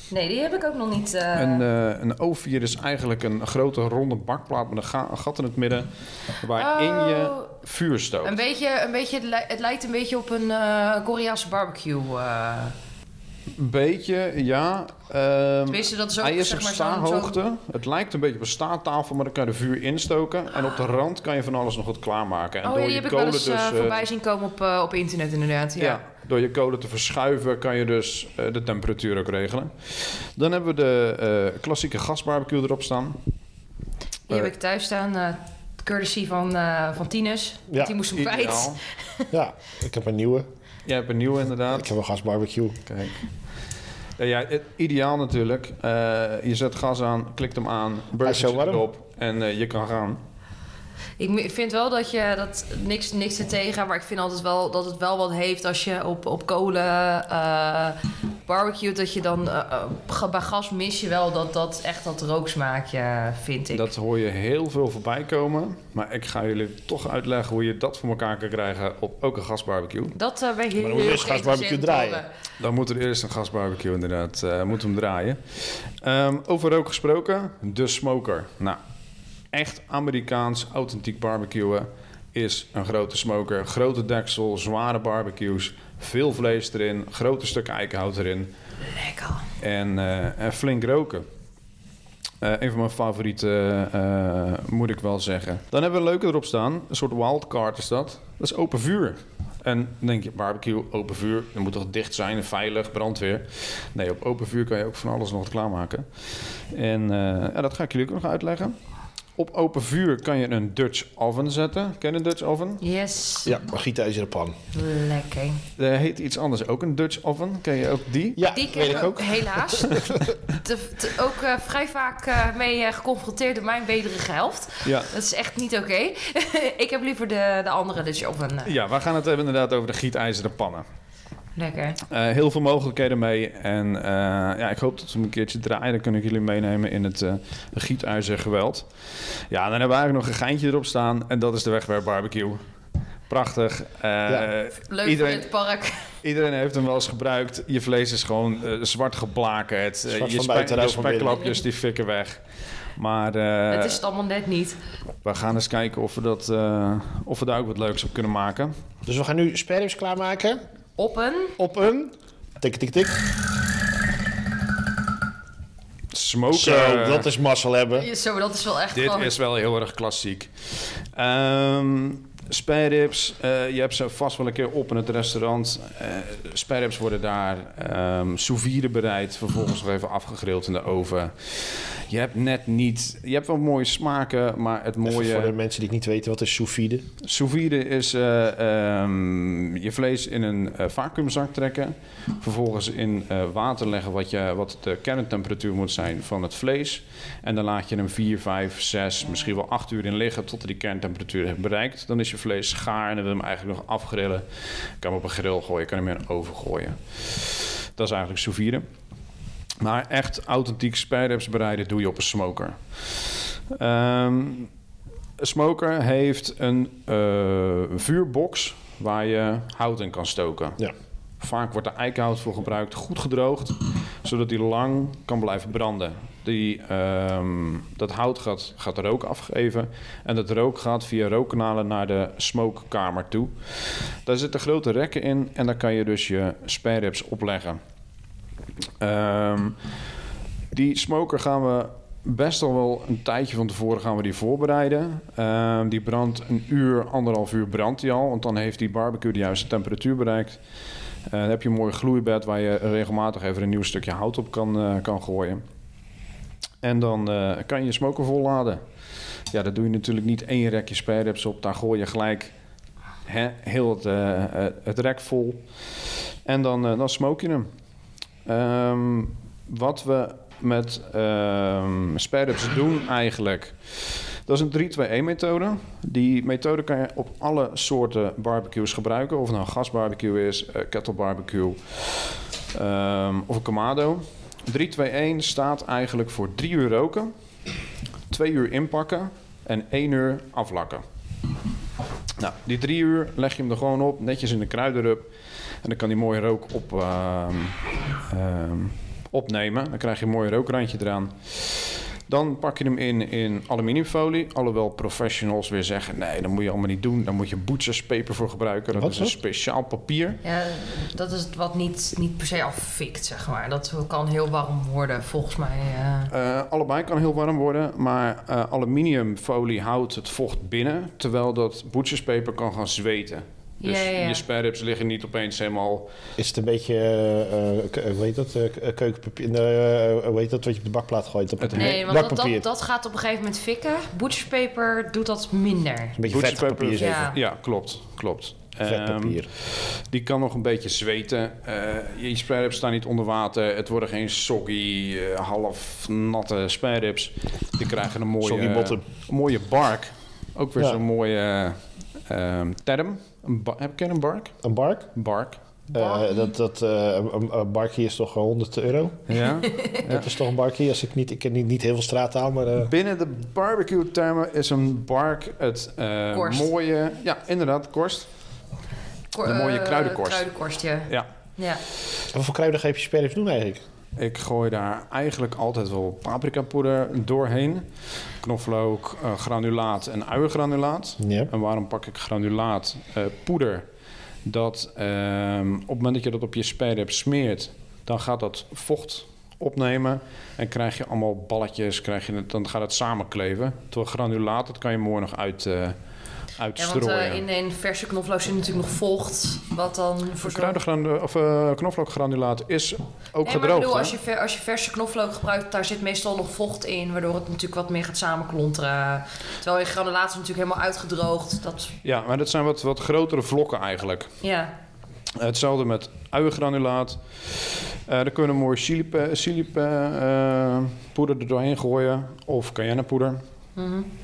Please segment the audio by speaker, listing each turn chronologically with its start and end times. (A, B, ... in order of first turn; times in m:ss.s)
0:00.1-0:01.6 A
0:01.4-0:05.9 B
0:06.4-0:08.4 B
0:06.6-0:07.5 A
0:08.2-0:12.8 A
0:13.6-0:24.0 B
0:15.7-0:17.4 A
0:22.6-0:26.0 A
0:25.8-0:33.2 B
0:34.3-0:39.3 A
0:37.7-0:38.0 C
0:38.1-0:38.8 B
0:39.3-0:40.5 C
0:40.8-0:41.9 B
0:41.7-0:42.8 C
0:42.9-0:43.2 B
0:44.2-0:50.2 B
0:48.2-0:48.8 C
0:51.2-1:03.9 A
1:03.7-1:10.2 B
1:10.1-1:12.3 A
1:10.8-1:12.2 C
1:12.6-1:18.8 B
1:19.5-1:28.5 B
1:28.9-1:29.5 A
1:29.6-1:31.3 B
1:32.4-1:46.1 B
1:46.7-1:48.8 B
1:49.4-1:52.8 B
1:52.8-1:53.5 A
1:53.4-1:54.6 C
1:54.7-1:55.6 A
1:55.8-1:58.5 B
1:58.4-2:00.2 C
1:58.5-2:08.7 A
2:04.8-2:05.1 B
2:08.6-2:10.8 B
2:11.6-2:12.0 A
2:12.1-2:18.9 B
2:19.5-2:22.6 B
2:23.3-2:25.5 B
2:24.9-2:26.1 A
2:26.2-2:32.4 B
2:30.1-2:31.5 C
2:33.0-2:34.0 B
2:33.7-2:34.8 A
2:35.2-2:38.7 B
2:39.1-2:40.6 C
2:41.0-2:41.6 A
2:41.6-2:43.2 C
2:46.1-2:47.3 B
2:46.5-2:48.1 C
2:48.0-2:49.4 A
2:48.9-3:05.5 B
3:05.0-3:07.1 C
3:07.2-3:24.4 B
3:25.0-3:28.8 B
3:29.8-3:34.7 B
3:35.4-3:40.8 B
3:41.4-3:53.5 B
3:54.3-3:57.8 B
3:59.0-3:59.8 B
4:00.7-4:10.6 B
4:11.3-4:15.6 B
4:16.8-4:18.8 B
4:19.5-4:22.5 B
4:23.3-4:25.6 B
4:26.4-4:27.7 B
4:28.5-4:47.3 B
4:48.3-4:51.0 B
4:52.4-4:55.3 B
4:55.8-4:57.8 B
4:58.3-5:10.4 B
5:09.0-5:09.3 C
5:10.4-5:16.3 A
5:16.3-5:26.1 B
5:23.8-5:24.4 A
5:26.4-5:32.6 C
5:31.6-5:32.1 B
5:31.8-5:36.2 A
5:36.2-5:37.3 C
5:36.3-5:54.6 B
5:37.0-5:37.4 A
5:38.8-5:39.5 C
5:48.4-5:49.0 C
5:54.6-5:55.1 C
5:55.2-5:55.6 B
5:55.9-5:59.4 C
5:59.3-6:00.4 B
5:59.6-6:00.0 A
6:00.0-6:02.9 C
6:02.9-6:08.3 B
6:06.3-6:06.7 A
6:09.3-6:11.8 A
6:09.4-6:10.5 B
6:12.3-6:13.8 C
6:14.2-6:17.9 B
6:18.4-6:23.8 B
6:21.2-6:21.5 C
6:24.4-6:36.0 B
6:36.6-6:37.4 B
6:36.8-6:40.8 A
6:40.4-6:44.1 B
6:43.4-6:52.0 A
6:52.0-6:54.3 B
6:54.4-6:54.7 A
6:55.4-7:03.4 B
7:03.8-7:04.1 A